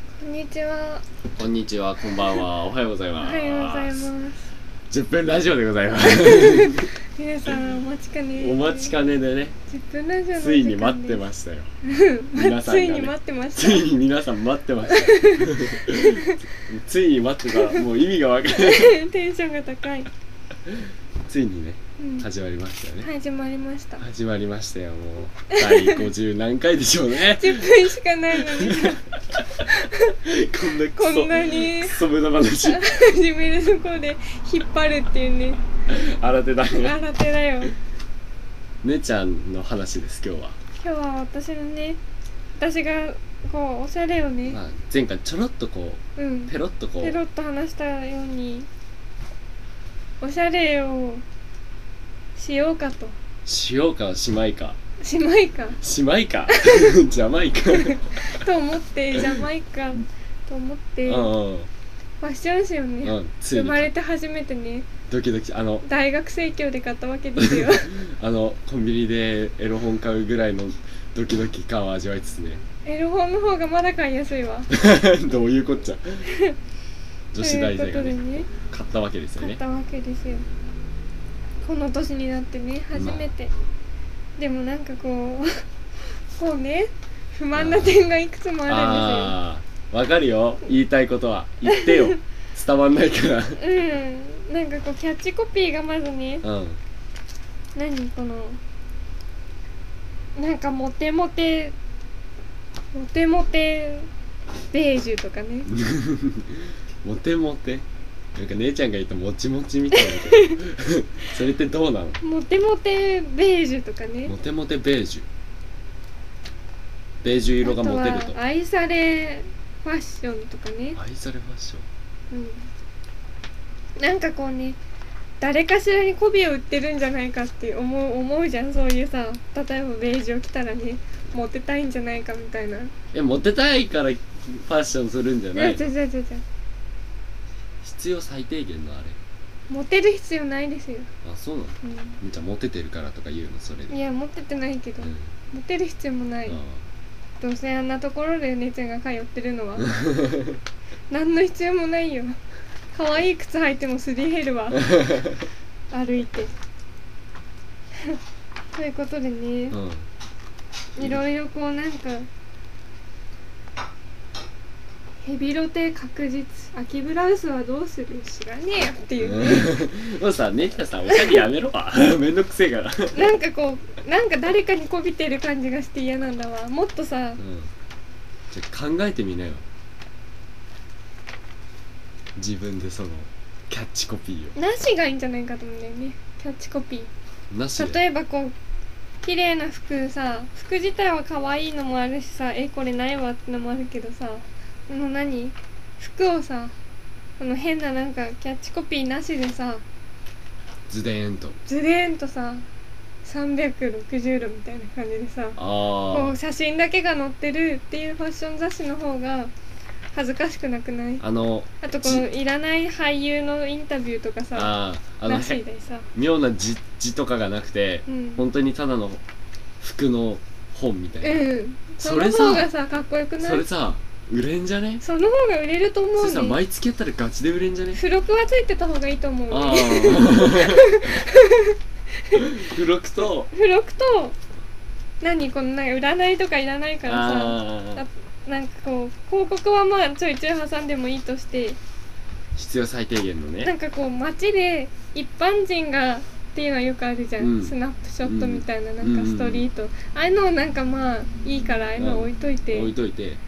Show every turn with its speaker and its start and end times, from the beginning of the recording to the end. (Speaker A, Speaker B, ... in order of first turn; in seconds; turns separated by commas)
Speaker A: 0.2-1.0, Speaker B: 1.4-4.1, Speaker A: 3.2-4.5, Speaker B: 4.9-6.9, Speaker A: 6.2-8.9, Speaker B: 8.4-9.6, Speaker A: 9.7-11.2, Speaker B: 10.3-11.7, Speaker A: 11.8-13.9, Speaker B: 12.3-18.9, Speaker A: 14.8-16.4, Speaker A: 17.5-17.8, Speaker A: 18.5-20.1, Speaker B: 21.3-23.1, Speaker A: 22.0-22.2, Speaker A: 23.0-24.0, Speaker B: 24.0-29.0, Speaker A: 25.5-26.1, Speaker A: 27.2-29.0, Speaker A: 29.6-30.1, Speaker B: 30.2-32.8, Speaker A: 30.9-32.0, Speaker A: 32.6-35.6, Speaker B: 35.9-37.0, Speaker A: 36.7-37.7, Speaker B: 38.8-40.6, Speaker A: 40.8-42.0, Speaker A: 42.6-44.6, Speaker B: 44.5-47.2, Speaker A: 46.2-48.7, Speaker A: 50.2-51.2, Speaker A: 52.4-53.2, Speaker B: 53.5-54.8, Speaker A: 55.0-55.8, Speaker B: 55.8-58.0, Speaker A: 56.5-56.9, Speaker A: 57.7-61.3, Speaker B: 61.0-61.7, Speaker A: 62.2-64.9, Speaker B: 63.0-63.9, Speaker B: 65.1-65.9, Speaker A: 65.8-68.0, Speaker B: 67.4-72.6, Speaker A: 72.8-74.7, Speaker B: 74.7-76.2, Speaker A: 76.3-76.5, Speaker B: 77.3-79.6, Speaker A: 77.4-78.5, Speaker A: 79.4-80.5, Speaker A: 81.6-83.5, Speaker B: 82.9-83.3, Speaker A: 84.4-85.6, Speaker A: 86.3-89.4, Speaker B: 87.5-88.1, Speaker B: 88.7-93.6, Speaker A: 91.7-92.1, Speaker A: 93.6-96.5, Speaker B: 96.4-96.8, Speaker A: 97.8-98.6, Speaker A: 100.4-101.8, Speaker A: 102.9-104.1, Speaker A: 104.7-105.7, Speaker B: 105.7-112.2, Speaker A: 109.9-110.6, Speaker A: 112.2-114.3, Speaker B: 114.3-115.3, Speaker B: 117.2-118.4, Speaker A: 117.6-121.0, Speaker B: 121.0-121.9, Speaker A: 122.3-122.7, Speaker A: 124.0-124.8, Speaker A: 125.4-132.9, Speaker B: 133.1-135.9, Speaker A: 135.5-136.4, Speaker B: 137.8-139.2, Speaker A: 139.7-141.1, Speaker B: 141.2-144.0, Speaker A: 141.8-142.2, Speaker A: 143.9-146.6, Speaker B: 145.0-145.3, Speaker B: 146.4-146.8, Speaker A: 147.4-149.9, Speaker B: 149.8-150.6, Speaker A: 151.1-152.4, Speaker A: 152.9-155.1, Speaker A: 155.9-156.5, Speaker A: 158.7-159.8, Speaker B: 159.7-160.0, Speaker A: 160.9-162.3, Speaker A: 165.2-169.8, Speaker B: 169.2-173.3, Speaker A: 173.1-177.4, Speaker B: 177.4-177.7, Speaker B: 178.5-179.6, Speaker B: 182.3-184.6, Speaker A: 184.6-187.1, Speaker B: 187.5-188.0, Speaker A: 187.8-188.5, Speaker A: 189.2-196.7, Speaker A: 197.4-199.8, Speaker B: 200.9-201.6, Speaker A: 201.7-202.6, Speaker A: 203.2-205.6, Speaker B: 205.6-206.3, Speaker A: 206.1-209.5, Speaker A: 210.1-211.2, Speaker B: 211.2-212.2, Speaker A: 211.8-216.1, Speaker B: 214.5-215.6, Speaker B: 216.1-219.2, Speaker A: 218.1-218.4, Speaker B: 219.8-221.4, Speaker A: 221.2-223.6, Speaker B: 222.0-222.7, Speaker B: 223.4-225.0, Speaker A: 225.0-226.6, Speaker B: 226.2-228.0, Speaker A: 227.9-231.8, Speaker B: 229.5-231.1, Speaker A: 232.3-232.6, Speaker B: 232.4-233.5, Speaker A: 233.5-234.3, Speaker A: 235.2-241.8, Speaker B: 237.1-238.0, Speaker B: 242.5-243.7, Speaker A: 243.6-252.9, Speaker B: 247.4-249.7, Speaker B: 252.0-253.4